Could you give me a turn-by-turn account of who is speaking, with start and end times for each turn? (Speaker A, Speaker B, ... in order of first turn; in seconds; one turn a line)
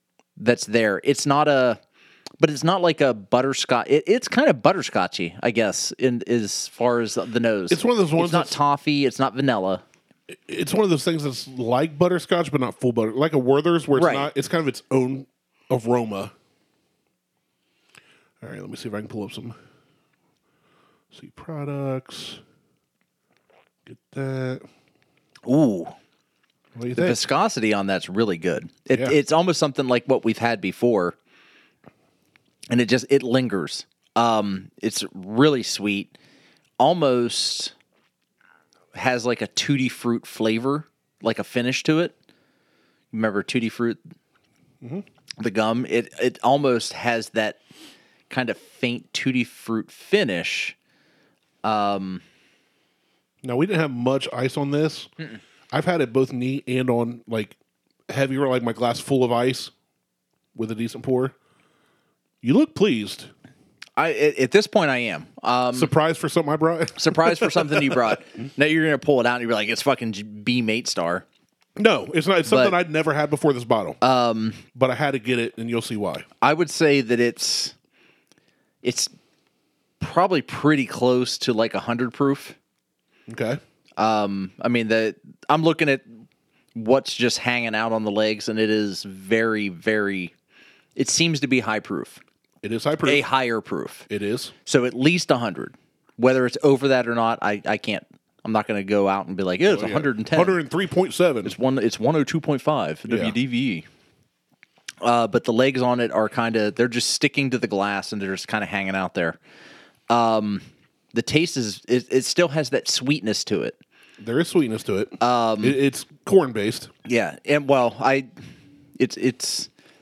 Speaker A: 0.4-1.8
Speaker A: 2.4-9.8
Speaker B: 7.7-8.6
Speaker B: 10.3-16.3
Speaker A: 13.9-14.3
Speaker B: 18.4-19.6
Speaker B: 21.1-22.4
Speaker B: 23.9-24.6
Speaker A: 25.5-26.0
Speaker B: 26.8-27.2
Speaker A: 26.9-31.2
Speaker A: 32.7-36.1
Speaker A: 36.8-37.7
Speaker A: 38.9-42.1
Speaker A: 43.1-44.0
Speaker A: 45.4-47.6
Speaker A: 48.3-50.8
Speaker A: 51.6-52.2
Speaker B: 53.4-55.1
Speaker B: 55.7-57.5
Speaker B: 58.1-59.7
Speaker B: 60.5-61.4
Speaker B: 62.4-63.3
Speaker A: 64.0-65.9
Speaker B: 65.7-68.2
Speaker A: 67.0-71.2
Speaker B: 71.8-74.0
Speaker A: 72.5-72.8
Speaker A: 74.0-74.6
Speaker B: 74.7-76.3
Speaker A: 76.4-77.8
Speaker A: 78.8-79.1
Speaker A: 80.0-82.6
Speaker B: 83.3-83.6
Speaker A: 84.0-86.1
Speaker A: 86.8-90.3
Speaker A: 91.0-92.2
Speaker B: 92.6-93.2
Speaker A: 93.0-94.1
Speaker B: 94.1-94.5
Speaker A: 94.7-100.6
Speaker B: 99.7-101.5
Speaker A: 101.5-103.9
Speaker B: 103.1-103.3
Speaker A: 105.0-109.4
Speaker A: 110.1-113.8
Speaker B: 114.2-116.9
Speaker A: 115.2-115.8
Speaker A: 117.0-118.3
Speaker A: 119.0-119.7